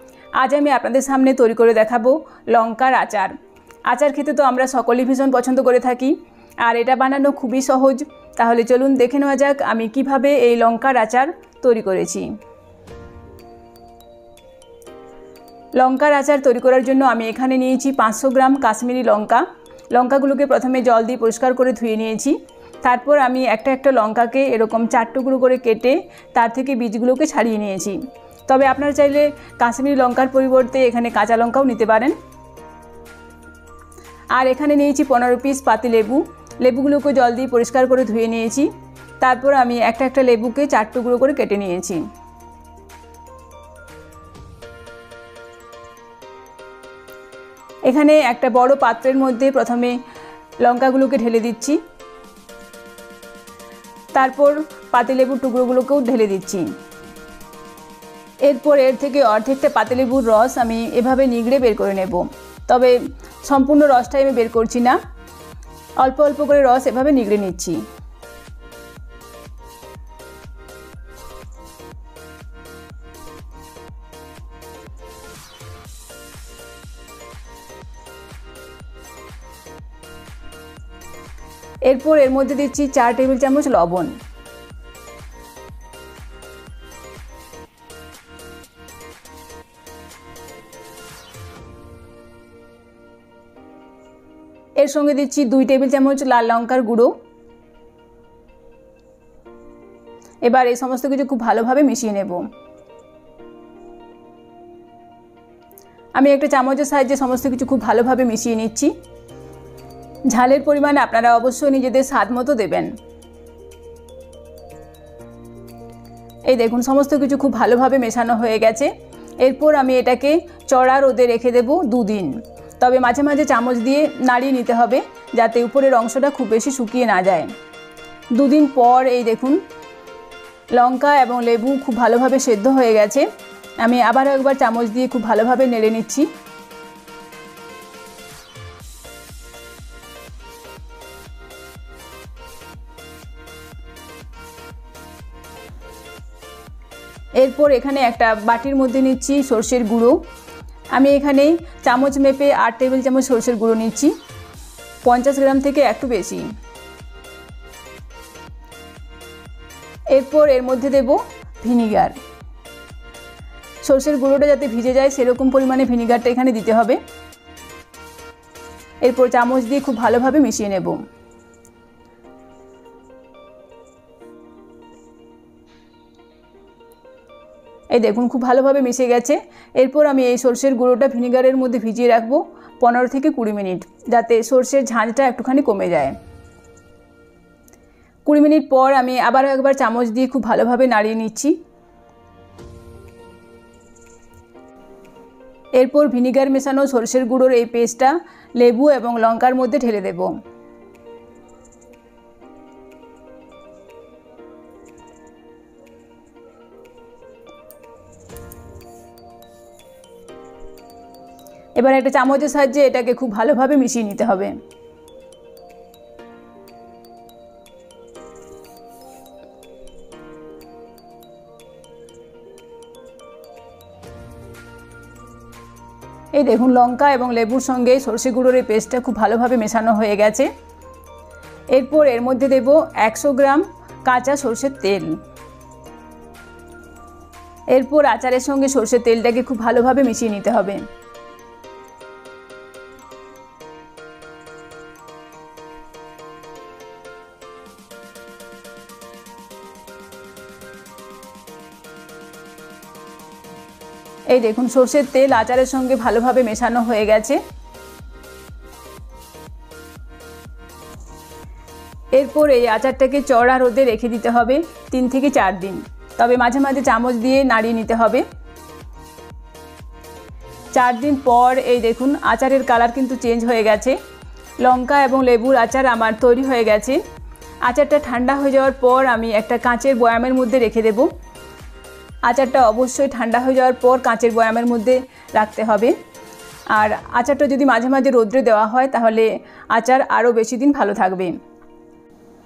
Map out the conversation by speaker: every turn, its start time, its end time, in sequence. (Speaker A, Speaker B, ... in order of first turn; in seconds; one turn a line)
Speaker A: 0.4-3.3
Speaker A: 3.9-12.3
Speaker A: 15.8-32.1
Speaker A: 34.3-38.7
Speaker A: 39.2-42.0
Speaker A: 47.9-50.0
Speaker A: 50.6-51.8
Speaker A: 54.1-56.7
Speaker A: 58.4-65.0
Speaker A: 66.0-67.8
Speaker A: 81.8-84.2
Speaker A: 94.8-97.2
Speaker A: 100.4-102.5
Speaker A: 106.1-108.9
Speaker A: 110.3-112.9
Speaker A: 116.5-127.5
Speaker A: 128.3-129.6
Speaker A: 130.7-133.2
Speaker A: 133.8-136.3
Speaker A: 147.4-150.2
Speaker A: 150.9-154.1
Speaker A: 155.0-156.4
Speaker A: 160.1-162.2
Speaker A: 163.8-167.0
Speaker A: 169.0-171.0
Speaker A: 177.9-186.2
Speaker A: 188.2-191.6
Speaker A: 195.8-200.4
Speaker A: 211.8-214.5
Speaker A: 226.3-230.5
Speaker A: 231.7-235.2
Speaker A: 237.7-240.8
Speaker A: 254.3-257.4
Speaker A: 262.1-268.2
Speaker A: 270.7-274.0
Speaker A: 274.6-277.0
Speaker A: 277.6-281.1
Speaker A: 282.2-285.9
Speaker A: 286.7-291.4